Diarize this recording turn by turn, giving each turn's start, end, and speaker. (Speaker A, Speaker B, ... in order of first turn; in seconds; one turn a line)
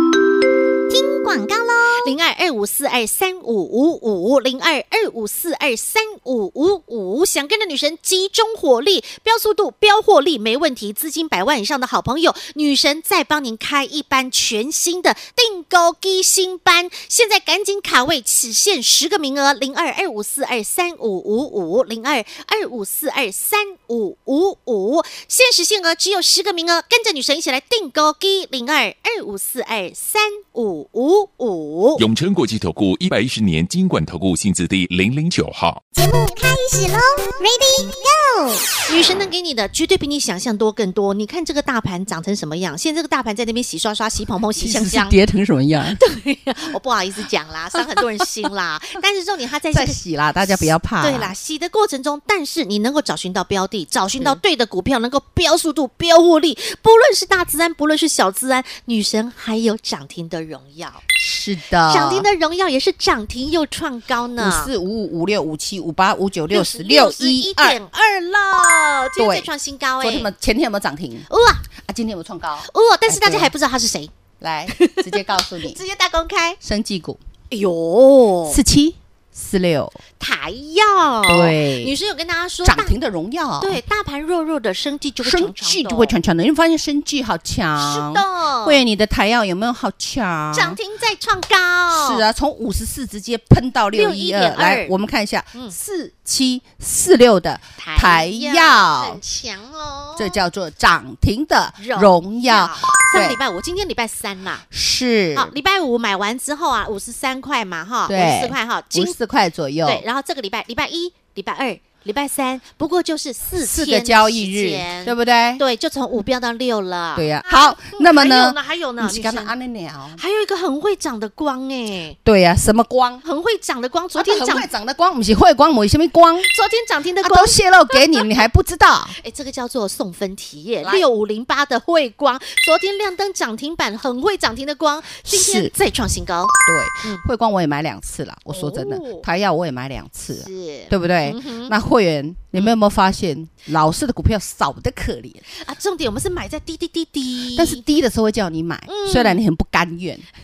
Speaker A: 0.9-1.9
Speaker B: 1.8-32.0
Speaker C: 32.0-35.8
Speaker A: 35.9-38.7
Speaker B: 38.9-45.1
Speaker D: 44.6-46.0
Speaker B: 46.0-61.0
Speaker D: 49.7-51.3
Speaker D: 61.2-62.3
Speaker B: 61.9-64.7
Speaker D: 64.4-67.8
Speaker B: 66.5-70.3
Speaker D: 69.2-69.5
Speaker D: 70.0-73.5
Speaker B: 71.3-71.6
Speaker B: 72.6-74.1
Speaker D: 74.4-75.8
Speaker B: 74.7-76.6
Speaker D: 76.6-77.2
Speaker B: 77.5-78.6
Speaker D: 78.5-80.0
Speaker B: 80.2-83.0
Speaker D: 81.3-81.9
Speaker D: 82.6-83.8
Speaker B: 83.6-86.2
Speaker D: 85.2-90.8
Speaker B: 87.8-88.8
Speaker B: 90.5-92.2
Speaker D: 91.9-99.2
Speaker B: 93.9-94.9
Speaker B: 97.8-100.4
Speaker D: 100.2-103.4
Speaker B: 101.8-104.7
Speaker D: 104.7-105.5
Speaker B: 105.3-109.1
Speaker D: 108.1-110.0
Speaker B: 109.8-119.5
Speaker D: 113.5-115.6
Speaker D: 117.1-120.2
Speaker B: 120.2-122.2
Speaker D: 122.2-123.2
Speaker B: 123.2-124.7
Speaker D: 124.1-126.5
Speaker B: 126.4-128.3
Speaker D: 127.2-129.2
Speaker B: 129.2-137.2
Speaker D: 135.2-135.7
Speaker D: 136.6-145.4
Speaker B: 138.5-139.2
Speaker B: 140.3-141.7
Speaker B: 145.5-147.8
Speaker D: 147.5-150.2
Speaker B: 148.9-149.4